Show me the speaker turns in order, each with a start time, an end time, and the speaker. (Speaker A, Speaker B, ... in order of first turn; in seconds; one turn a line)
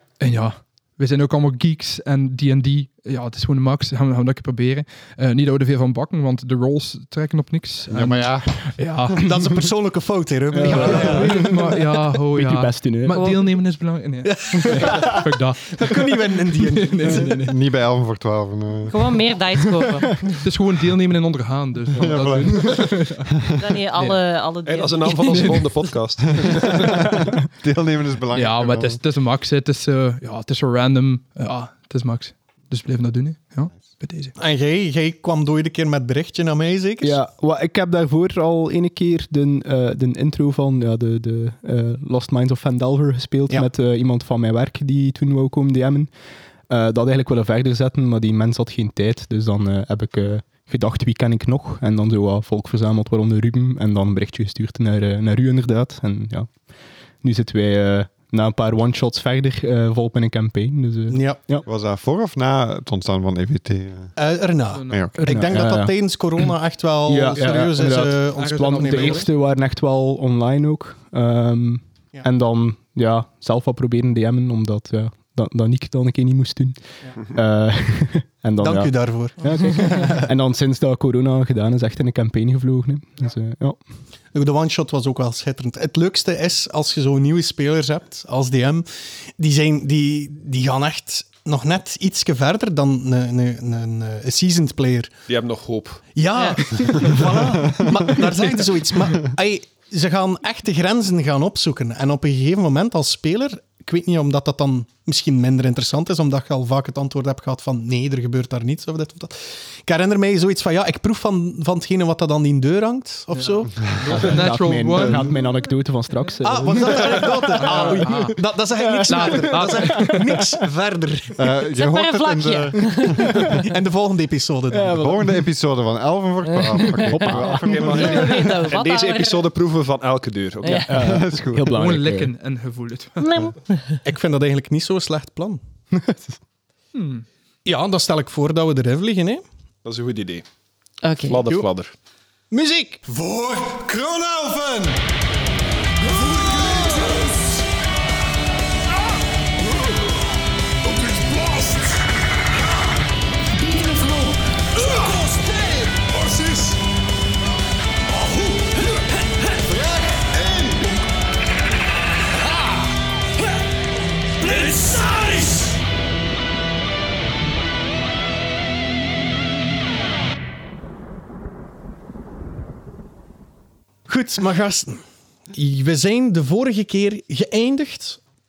Speaker A: 0.2-9.3
Speaker B: 7.9-8.6
Speaker C: 9.2-11.5
Speaker D: 10.5-11.7
Speaker A: 10.6-17.5
Speaker D: 12.3-13.3
Speaker C: 14.2-15.1
Speaker D: 14.7-15.2
Speaker C: 15.8-17.4
Speaker B: 17.4-19.0
Speaker E: 18.9-20.4
Speaker A: 20.4-23.3
Speaker B: 21.9-23.0
Speaker E: 23.6-25.9
Speaker F: 24.6-26.8
Speaker A: 25.3-25.7
Speaker B: 26.5-29.0
Speaker D: 26.8-27.3
Speaker A: 28.3-34.3
Speaker C: 34.4-37.2
Speaker D: 37.0-46.1
Speaker D: 46.7-56.5
Speaker D: 57.2-61.7
Speaker C: 61.1-61.4
Speaker B: 61.7-64.2
Speaker C: 64.2-69.3
Speaker A: 64.7-65.1
Speaker B: 64.9-65.2
Speaker D: 65.3-66.0
Speaker D: 67.0-83.8
Speaker A: 67.3-69.3
Speaker C: 78.6-80.3
Speaker C: 84.3-95.2
Speaker F: 95.3-96.0
Speaker C: 96.2-113.9
Speaker E: 96.4-97.1
Speaker A: 113.3-115.5
Speaker D: 114.1-120.2
Speaker C: 116.4-121.4
Speaker A: 117.6-118.4
Speaker A: 119.1-120.5
Speaker B: 121.4-123.5
Speaker E: 121.8-123.2
Speaker C: 123.5-125.1
Speaker D: 124.7-125.3
Speaker B: 124.9-128.4
Speaker D: 126.7-127.7
Speaker E: 126.8-129.5
Speaker F: 127.5-131.2
Speaker E: 130.6-130.9
Speaker D: 130.9-132.3
Speaker B: 131.0-131.8
Speaker A: 131.7-133.5
Speaker E: 133.2-134.0
Speaker C: 134.0-135.6
Speaker D: 135.9-136.3
Speaker A: 136.9-137.3
Speaker C: 137.7-139.4
Speaker F: 139.8-140.5
Speaker E: 141.0-141.4
Speaker F: 141.3-141.9
Speaker C: 142.5-145.0
Speaker C: 146.2-147.4
Speaker C: 151.0-151.9
Speaker C: 159.7-160.2
Speaker C: 174.1-175.0
Speaker C: 175.5-178.2